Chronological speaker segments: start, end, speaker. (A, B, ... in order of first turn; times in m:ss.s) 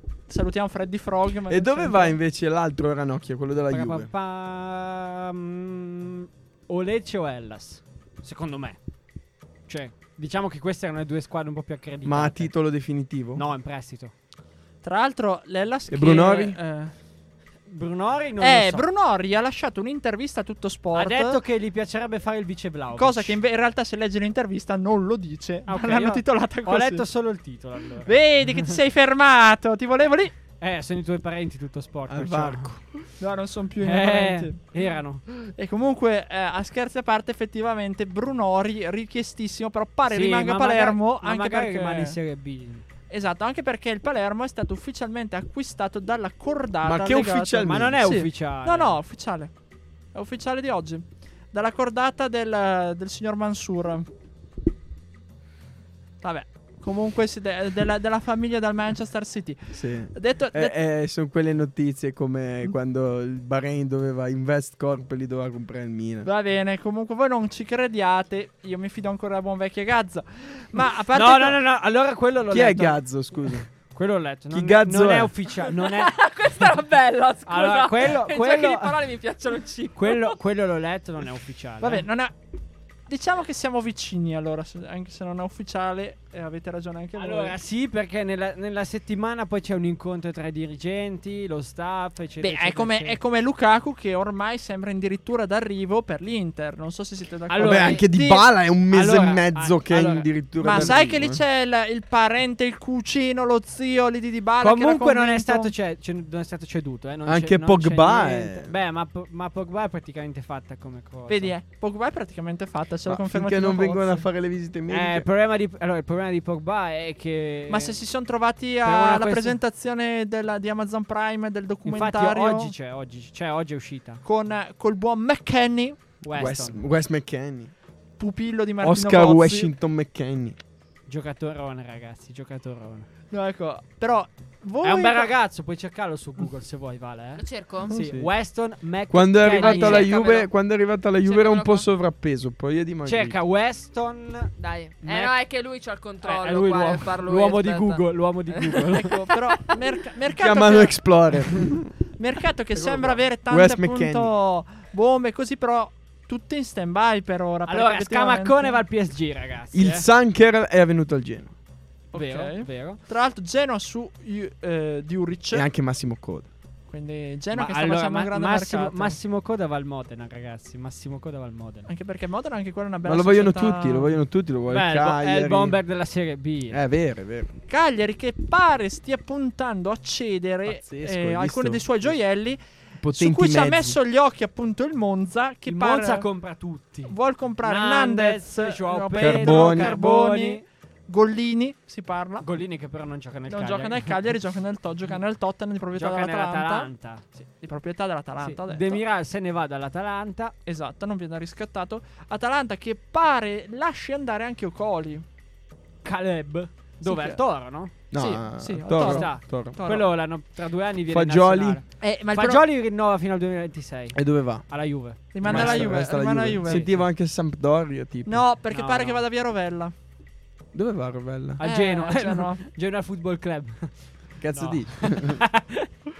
0:00.3-0:02.2 A
0:01.5-0:04.1 B
0:03.7-0:08.8 C
0:09.7-0:12.5 C
0:12.0-0:13.4 B
0:13.3-0:14.1 C
0:14.8-0:16.9 A
0:15.9-0:16.6 B
0:17.7-0:18.8 C
0:18.4-0:21.4 A
0:20.9-0:23.4 C
0:22.9-0:27.0 A
0:25.7-0:28.7 C
0:28.0-0:30.3 A
0:30.6-0:32.7 C
0:32.1-0:33.0 B
0:33.2-0:42.2 A
0:33.8-0:35.2 C
0:40.1-0:42.8 C
0:43.1-0:49.5 A
0:46.8-0:48.1 B
0:47.6-0:49.0 C
0:50.1-0:54.1 A
0:56.2-1:00.7 A
0:59.7-1:06.3 B
1:06.2-1:11.6 A
1:11.1-1:13.0 C
1:12.5-1:13.7 B
1:13.9-1:16.2 C
1:14.5-1:15.3 B
1:15.7-1:20.4 D
1:17.4-1:18.9 C
1:19.9-1:22.0 C
1:21.8-1:22.3 A
1:23.1-1:27.6 A
1:27.2-1:33.2 C
1:32.4-1:38.5 A
1:37.5-1:38.1 C
1:37.6-1:41.4 B
1:38.9-1:41.0 C
1:40.6-1:45.7 A
1:44.6-1:51.5 C
1:47.2-1:48.7 B
1:51.3-1:54.2 A
1:53.0-1:55.2 B
1:54.9-1:58.0 C
1:57.7-2:02.7 A
1:58.8-1:59.6 C
2:01.8-2:04.2 C
2:04.2-2:06.0 A
2:06.2-2:06.8 C
2:06.3-2:07.7 B
2:08.2-2:09.7 A
2:08.8-2:10.6 B
2:11.1-2:13.1 C
2:13.3-2:15.3 A
2:14.8-2:20.3 C
2:17.4-2:17.9 D
2:17.9-2:18.3 B
2:19.1-2:23.4 B
2:19.6-2:20.5 D
2:21.2-2:21.9 D
2:23.0-2:25.3 C
2:24.6-2:29.4 D
2:26.2-2:29.2 C
2:28.9-2:31.0 A
2:30.4-2:31.9 B
2:32.2-2:38.8 A
2:32.7-2:34.3 B
2:37.7-2:40.0 C
2:39.7-2:41.5 B
2:42.1-2:43.0 C
2:42.1-2:45.7 A
2:45.5-2:46.5 B
2:46.9-2:49.2 A
2:47.5-2:51.9 C
2:51.8-2:54.2 A
2:53.0-2:55.8 B
2:54.7-2:56.8 C
2:56.7-2:57.5 B
2:57.7-3:06.3 A
3:00.6-3:02.2 B
3:03.0-3:04.0 B
3:05.6-3:10.6 C
3:07.1-3:12.4 A
3:09.2-3:10.0 B
3:12.4-3:14.1 C
3:13.5-3:19.0 A
3:15.9-3:17.2 C
3:18.4-3:20.5 C
3:20.6-3:25.2 A
3:26.0-3:27.9 C
3:27.0-3:27.4 A
3:28.1-3:29.8 B
3:28.1-3:30.1 A
3:28.8-3:36.0 C
3:31.1-3:31.8 B
3:32.0-3:32.6 A
3:34.1-3:34.6 B
3:35.3-3:36.9 A
3:35.4-3:38.4 B
3:36.6-3:37.1 C
3:38.2-3:39.9 A
3:38.7-3:39.2 C
3:40.7-3:41.6 B
3:41.6-3:45.9 C
3:41.6-3:42.6 A
3:44.4-3:45.4 B